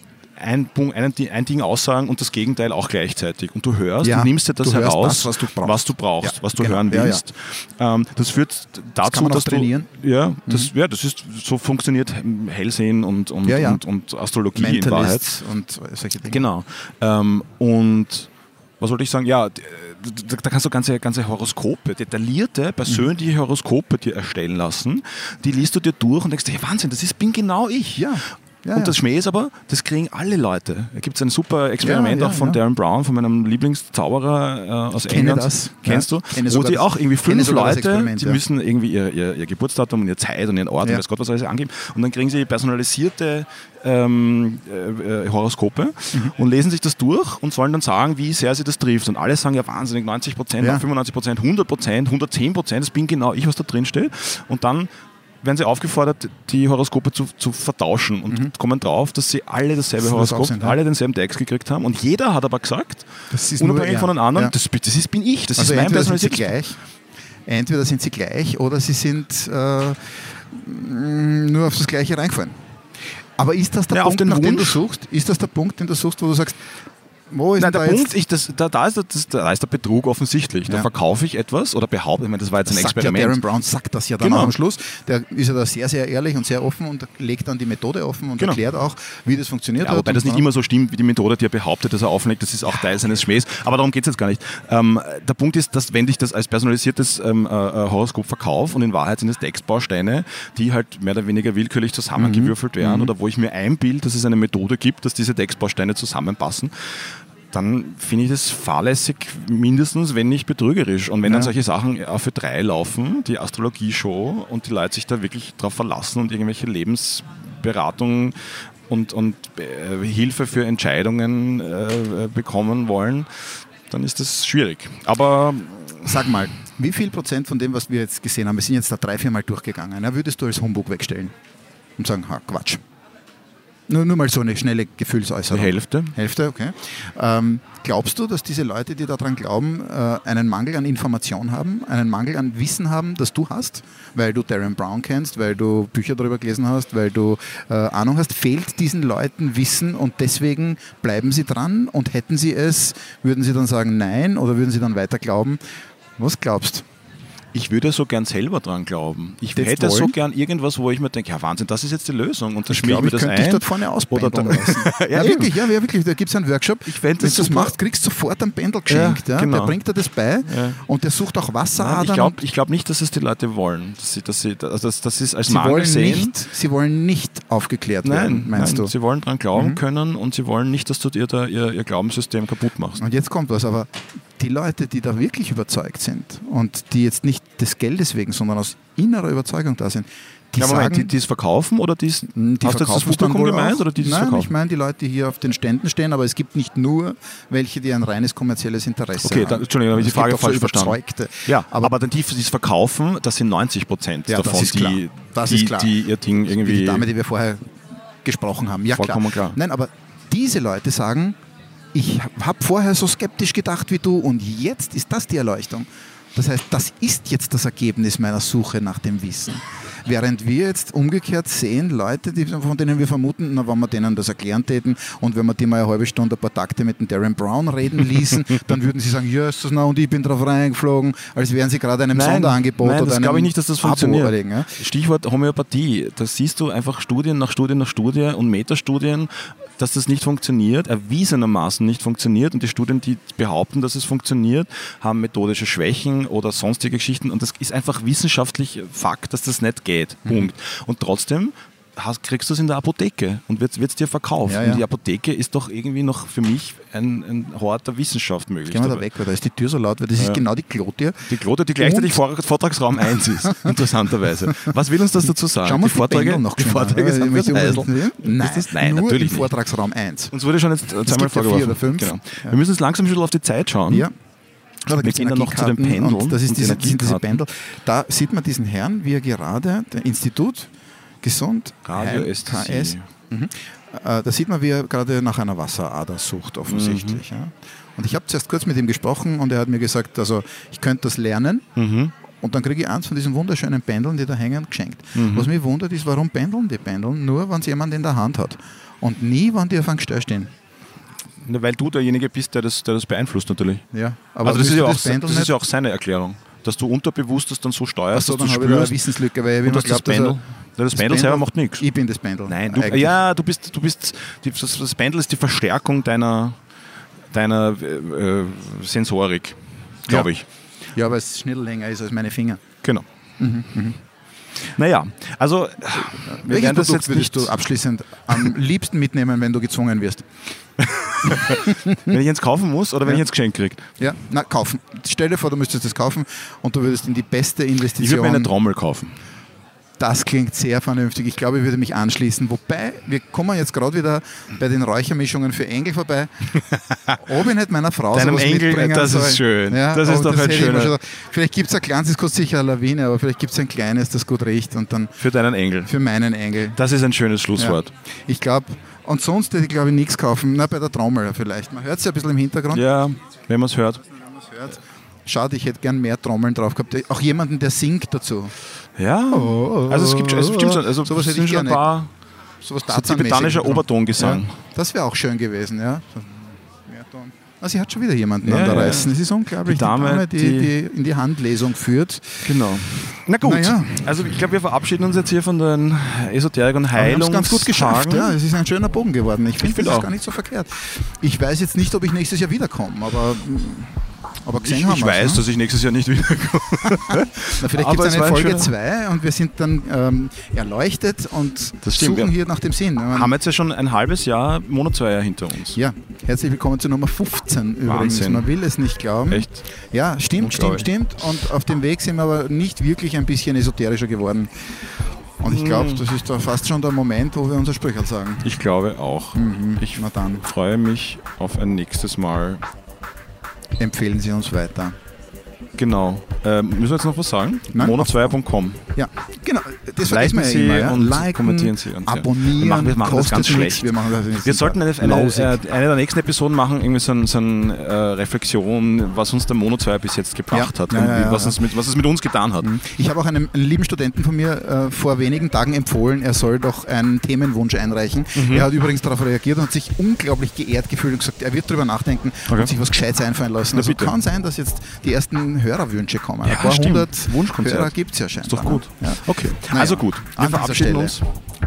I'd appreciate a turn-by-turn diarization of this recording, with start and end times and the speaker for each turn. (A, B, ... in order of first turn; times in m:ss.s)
0:00.4-0:15.3 A
0:04.0-0:07.2 B
0:09.0-0:09.9 B
0:13.4-0:13.8 B
0:14.5-0:16.4 B
0:16.2-0:54.9 A
0:27.9-0:29.0 B
0:31.8-0:32.6 B
0:34.9-0:38.4 B
0:55.4-1:06.5 A
1:00.0-1:00.8 B
1:03.3-1:04.5 B
1:05.6-1:06.8 B
1:07.5-1:12.6 B
1:13.4-1:16.7 B
1:13.9-1:14.8 A
1:17.3-1:18.1 B
1:17.6-1:23.4 A
1:22.6-1:30.4 B
1:24.2-1:24.5 A
1:29.8-2:06.4 A
1:42.2-1:43.1 B
1:51.2-1:51.5 B
2:06.0-2:11.3 B
2:12.0-2:12.8 B
2:13.9-2:35.6 B
2:15.5-2:16.2 A
2:36.2-2:36.8 B
2:37.5-2:45.6 A
2:39.5-2:40.1 B
2:42.7-2:52.4 B
2:46.8-2:47.8 A
2:48.9-2:49.8 A
2:50.4-2:50.8 A
2:51.8-2:56.3 A
2:55.5-2:58.9 B
2:58.0-3:03.0 A
2:59.5-2:59.8 B
3:03.0-3:11.1 B
3:10.6-3:14.5 A
3:12.3-3:21.9 B
3:19.2-3:27.1 A
3:24.3-3:31.4 B
3:28.9-3:29.6 A
3:31.9-3:54.7 B
3:52.1-4:19.0 A
4:14.5-4:14.8 B
4:18.7-4:22.2 B
4:20.2-4:20.4 A
4:21.2-4:29.5 A
4:23.4-4:23.8 B
4:25.6-4:30.3 B
4:30.3-4:34.1 A
4:31.0-4:32.6 B
4:34.8-4:40.7 B
4:34.9-4:37.4 A
4:41.2-4:51.7 B
4:41.8-4:43.1 A
4:46.7-4:47.2 A
4:51.8-4:52.1 A
4:52.4-5:00.5 B
4:55.1-4:55.5 A
5:01.4-5:03.8 A
5:03.9-5:05.5 B
5:04.4-5:09.0 A
5:08.1-5:10.4 B
5:09.6-5:11.9 A
5:10.9-5:13.2 B
5:12.5-5:16.6 A
5:17.3-5:20.5 A
5:20.9-5:22.6 B
5:23.4-5:24.0 B
5:24.6-5:27.6 A
5:26.0-5:30.3 B
5:30.8-5:33.9 A
5:31.3-5:32.2 B
5:34.0-5:38.5 B
5:38.0-5:39.2 A
5:40.0-5:46.5 B
5:46.6-5:47.2 A
5:47.2-5:55.2 B
5:48.1-5:50.9 A
5:55.2-5:55.9 A
5:55.8-5:56.8 B
5:56.7-5:57.9 A
5:57.6-6:02.8 B
6:02.7-6:04.0 A
6:04.1-6:08.5 B
6:09.0-6:12.1 A
6:09.3-6:11.9 B
6:12.6-6:22.6 B
6:12.9-6:14.6 A
6:18.4-6:20.7 A
6:22.4-6:28.4 A
6:23.4-6:24.1 B
6:26.9-6:35.4 B
6:29.6-6:30.1 A
6:34.6-6:38.7 A
6:37.0-6:43.3 B
6:41.8-6:42.3 A
6:43.1-6:45.8 A
6:45.7-6:58.6 B
6:47.8-6:48.5 A
6:49.3-6:49.7 A
6:50.4-6:50.9 A
6:55.4-6:56.0 A
6:58.4-7:02.6 A
6:59.3-7:00.4 B
7:03.8-7:05.0 B
7:05.8-7:08.9 A
7:07.7-7:08.3 B
7:08.9-7:15.6 B
7:10.1-7:22.7 A
7:20.5-7:21.6 B
7:22.6-7:41.2 B
7:28.4-7:28.7 A
7:33.7-7:34.2 A
7:36.4-7:41.2 A